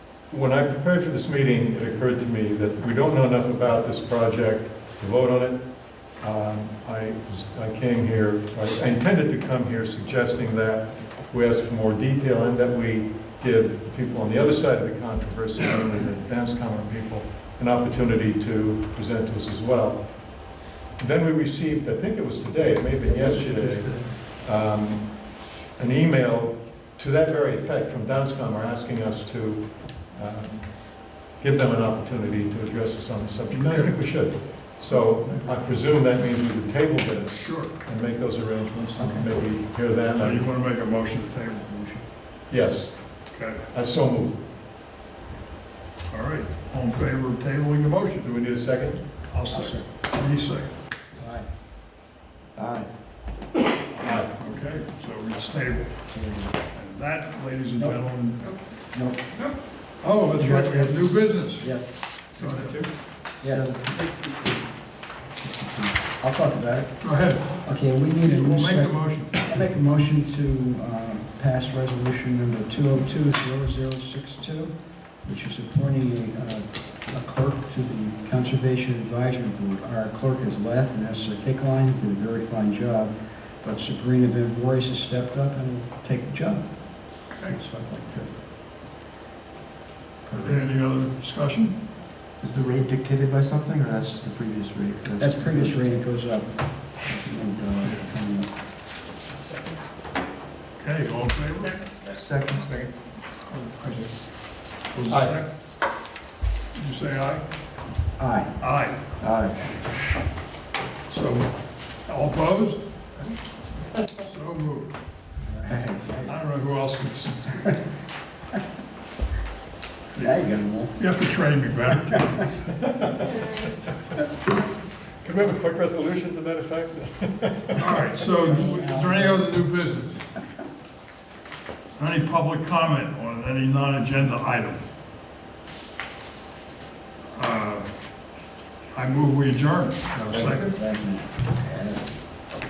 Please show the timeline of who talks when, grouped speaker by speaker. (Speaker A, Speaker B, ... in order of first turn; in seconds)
Speaker A: 0.3-40.4, 42.5-43.2, 43.7-44.4, 48.2-49.0, 54.0-54.3, 105.1-105.4, 122.7-123.5, 125.2-127.9
Speaker B: 23.1-24.1, 52.5-52.9, 62.4-64.6, 65.3-66.0, 90.3-90.6, 92.4-95.8, 102.0-102.9, 109.2-109.8
Speaker C: 33.5-34.0, 37.3-37.7, 40.1-42.0, 43.3-43.6, 46.1-48.3, 49.3-50.7, 54.0-55.9, 56.7-58.5, 60.0-62.9, 67.0-67.6, 68.2-69.6, 87.3-87.6, 90.4-91.8, 97.8-98.1, 100.8-101.9, 103.5-104.0, 104.9-105.5, 106.7-107.4, 108.6-109.0, 111.1-111.5, 112.0-114.9, 116.3-117.8, 120.1-120.4, 120.9-122.6, 127.8-130.2, 131.9-134.8, 137.3-137.9, 138.9-140.8
Speaker D: 39.0-39.2, 49.5-49.8, 51.2-51.5, 56.1-56.6, 58.9-59.5, 60.3-62.0, 63.4-63.7, 66.2-67.1, 67.6-88.3, 95.2-98.5, 108.2-108.5, 115.5-116.3, 120.2-120.9, 128.4-129.5, 140.3-142.2